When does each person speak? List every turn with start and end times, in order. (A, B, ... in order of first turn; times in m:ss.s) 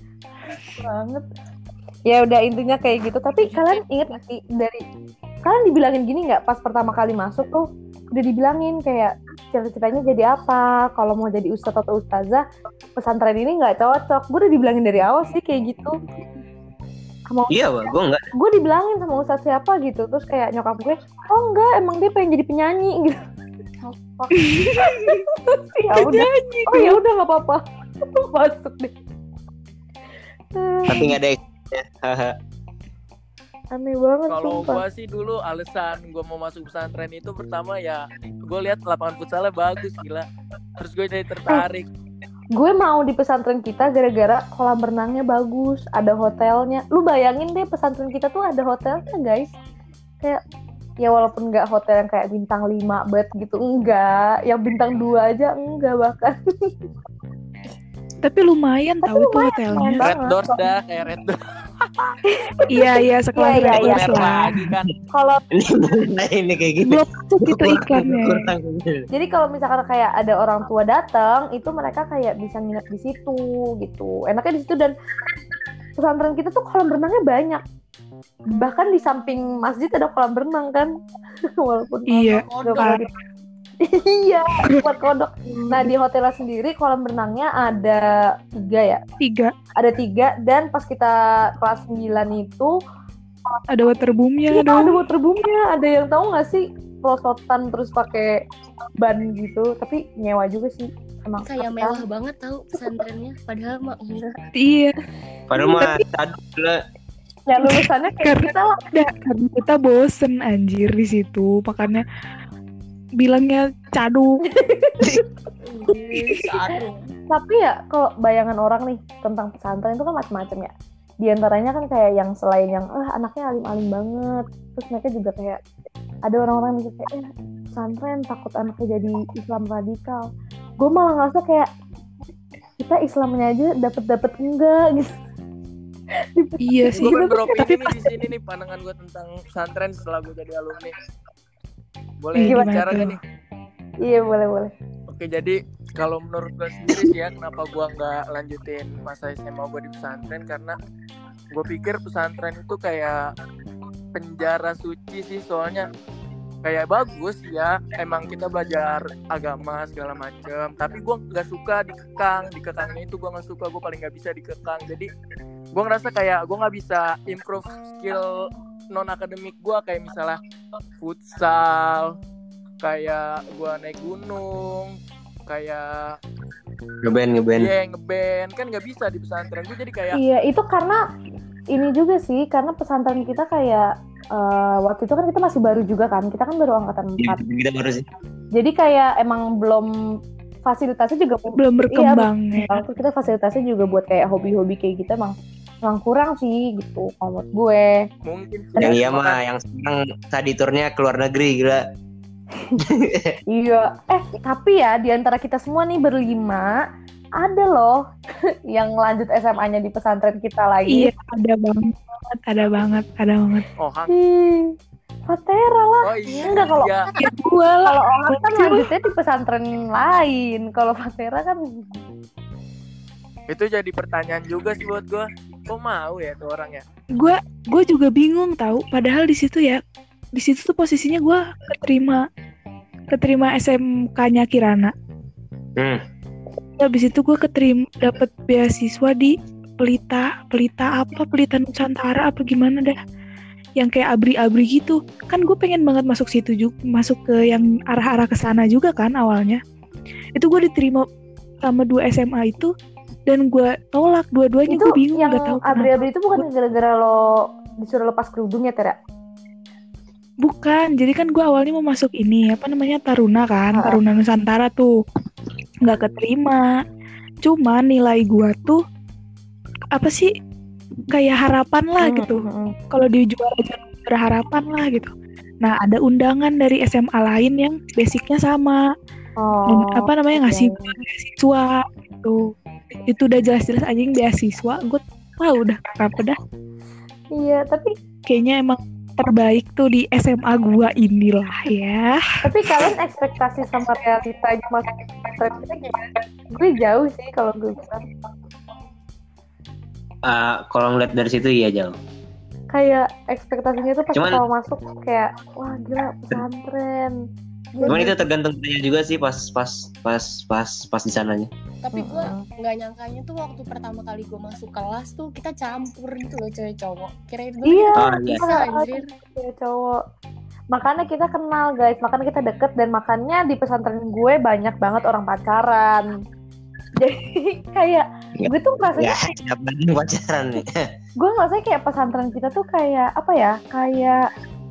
0:00.6-0:01.2 A
0:02.1-0:04.8 A
0:03.4-0:04.1 B
0:05.4-0:12.4 A
0:13.0-0:16.0 A
0:17.3-0:17.6 A
0:17.5-0:18.3 C
0:18.3-0:23.2 A
0:24.2-0:28.9 A
0:24.3-0:25.2 D
0:25.9-0:27.0 D
0:30.6-0:31.2 A
0:30.9-0:32.4 C
0:33.7-0:34.8 A
0:34.3-0:40.3 E
0:40.8-0:41.9 E
0:42.5-0:49.5 A
0:51.0-0:56.8 A
0:58.2-1:00.1 D
0:59.0-1:00.7 A
1:00.0-1:01.4 E
1:02.2-1:04.4 A
1:02.7-1:04.6 D
1:03.6-1:04.9 E
1:04.6-1:04.9 C
1:05.1-1:05.4 A
1:05.5-1:09.1 C
1:06.8-1:08.5 D
1:09.1-1:14.9 A
1:16.0-1:17.6 A
1:18.6-1:20.9 A
1:21.6-1:23.1 A
1:22.1-1:23.1 D
1:22.2-1:23.0 B
1:23.8-1:28.0 A
1:25.5-1:25.9 D
1:28.6-1:29.0 A
1:29.2-1:29.5 D
1:29.8-1:32.7 A
1:33.7-1:35.0 D
1:34.5-1:38.4 A
1:39.0-1:42.0 A
1:41.4-1:44.4 B
1:44.6-1:45.0 D
1:45.5-1:46.8 C
1:45.6-1:46.0 D
1:47.5-1:48.9 A
1:47.6-1:52.0 D
1:53.2-1:54.4 D
1:54.5-1:55.2 A
1:55.6-1:57.1 B
1:57.3-2:00.7 A
2:01.2-2:05.6 A
2:06.3-2:10.2 A
2:10.8-2:11.7 A
2:12.8-2:15.2 A
2:16.2-2:17.5 A
2:16.6-2:18.1 D
2:17.0-2:21.0 E
2:22.2-2:23.2 E
2:22.4-2:23.2 D
2:22.4-2:23.0 A
2:24.0-2:24.7 A
2:25.1-2:30.8 E
2:31.5-2:33.3 E
2:34.1-2:35.9 E
2:36.6-2:45.1 E
2:45.7-2:50.4 E
2:51.0-2:52.2 E
2:52.8-2:56.2 E
2:57.0-2:57.7 C
2:57.6-3:00.2 E
3:00.1-3:01.0 A
3:01.7-3:07.4 A
3:07.2-3:08.1 C
3:08.6-3:09.9 A
3:10.7-3:18.1 A
3:11.6-3:12.8 D
3:18.2-3:19.4 E
3:18.8-3:21.8 C
3:22.8-3:23.4 C
3:23.5-3:26.8 A
3:27.4-3:28.0 A
3:28.7-3:31.1 A
3:30.9-3:33.7 D
3:33.8-3:34.1 E
3:34.1-3:34.8 A
3:35.3-3:37.0 A
3:36.0-3:37.1 E
3:36.3-3:37.3 B
3:37.2-3:38.9 D
3:37.8-3:42.0 A
3:43.5-3:46.8 E
3:47.2-3:49.8 D
3:50.3-3:52.2 D
3:53.1-3:54.9 D
3:55.8-3:56.0 C
3:56.8-4:03.0 D
4:03.8-4:09.6 D
4:10.4-4:11.1 D
4:11.6-4:12.7 D
4:13.3-4:16.4 D
4:14.7-4:19.0 A
4:20.4-4:24.9 D
4:23.7-4:24.0 A
4:25.8-4:26.6 D
4:27.4-4:28.8 D
4:29.9-4:30.3 D
4:31.1-4:35.1 D
4:32.0-4:32.7 A
4:35.6-4:38.8 D
4:39.4-4:41.0 A
4:39.7-4:42.4 D
4:43.1-4:46.4 D
4:47.4-4:47.9 A
4:48.3-4:52.2 D
4:52.4-4:58.2 A
5:00.2-5:02.0 C
5:02.7-5:07.2 A
5:04.1-5:04.4 C
5:07.7-5:08.2 A
5:07.9-5:11.5 C
5:11.8-5:19.1 B
5:11.9-5:12.4 A
5:17.6-5:20.0 A
5:18.0-5:18.5 C
5:20.7-5:26.1 A
5:27.0-5:29.3 A
5:28.4-5:30.9 C
5:31.2-5:34.3 A